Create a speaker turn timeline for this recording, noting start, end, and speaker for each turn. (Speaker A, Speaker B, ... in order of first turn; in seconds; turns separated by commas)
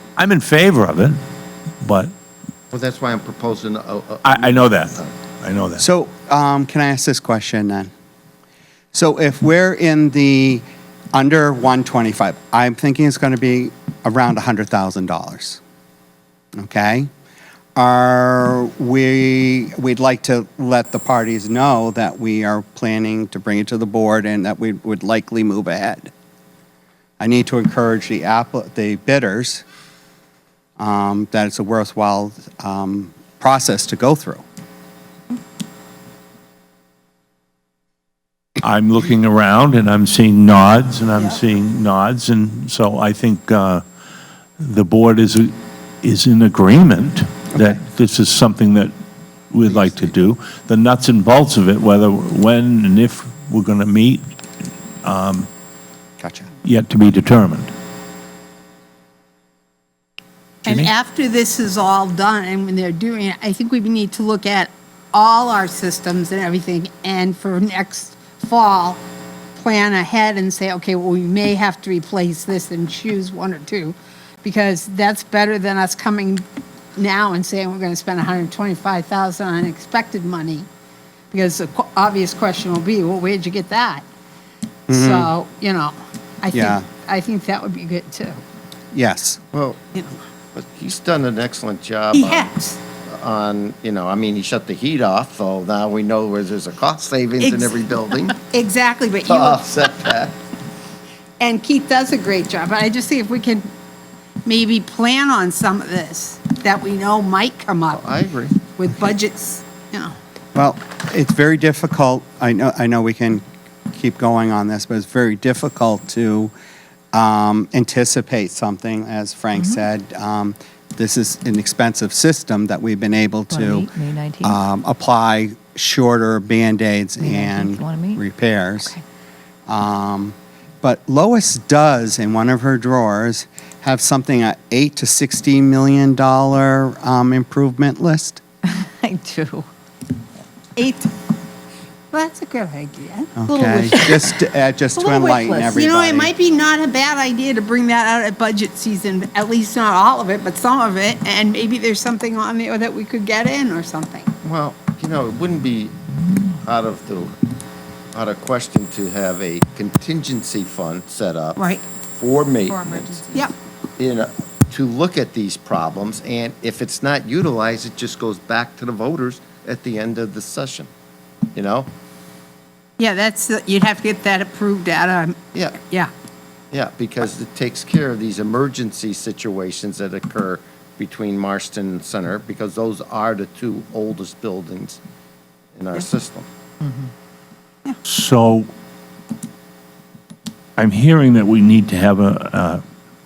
Speaker A: 0.2-1.2, Speaker A: 1.8-2.1, Speaker B: 2.7-5.1, Speaker A: 4.2-5.8, Speaker C: 5.8-7.9, Speaker C: 8.9-15.6, Speaker C: 16.6-17.1, Speaker C: 17.8-26.1, Speaker C: 27.2-29.6, Speaker C: 30.8-34.4, Speaker A: 38.6-43.8, Speaker A: 44.6-48.9, Speaker A: 49.5-54.3, Speaker B: 49.7-50.1, Speaker A: 55.0-55.5, Speaker B: 56.2-56.5, Speaker A: 56.6-57.7, Speaker D: 60.6-69.0, Speaker D: 69.6-76.4, Speaker D: 77.0-80.7, Speaker D: 81.3-84.0, Speaker C: 84.9-85.3, Speaker D: 84.9-88.4, Speaker C: 86.5-86.9, Speaker C: 88.9-89.4, Speaker B: 89.5-89.8, Speaker B: 90.5-92.5, Speaker D: 92.1-92.8, Speaker B: 93.0-98.4, Speaker D: 97.4-97.8, Speaker D: 98.4-99.6, Speaker B: 99.2-100.4, Speaker D: 101.4-103.7, Speaker D: 104.5-108.1, Speaker B: 107.9-108.6, Speaker D: 108.7-110.1, Speaker C: 110.5-116.5, Speaker C: 117.1-129.0, Speaker E: 123.5-124.6, Speaker E: 127.2-128.2, Speaker C: 129.7-138.4, Speaker E: 138.7-139.7, Speaker D: 140.8-141.1, Speaker D: 142.1-144.3, Speaker C: 143.4-146.3, Speaker E: 145.0-145.7, Speaker D: 145.3-154.3, Speaker B: 154.4-156.0, Speaker B: 156.6-157.4, Speaker B: 158.1-163.3, Speaker D: 161.6-161.8, Speaker D: 162.7-163.5, Speaker B: 164.0-170.9, Speaker B: 171.6-171.9, Speaker D: 173.0-176.1, Speaker B: 175.5-175.8, Speaker B: 176.7-185.0, Speaker B: 185.8-186.5, Speaker A: 188.1-188.7, Speaker A: 190.8-192.8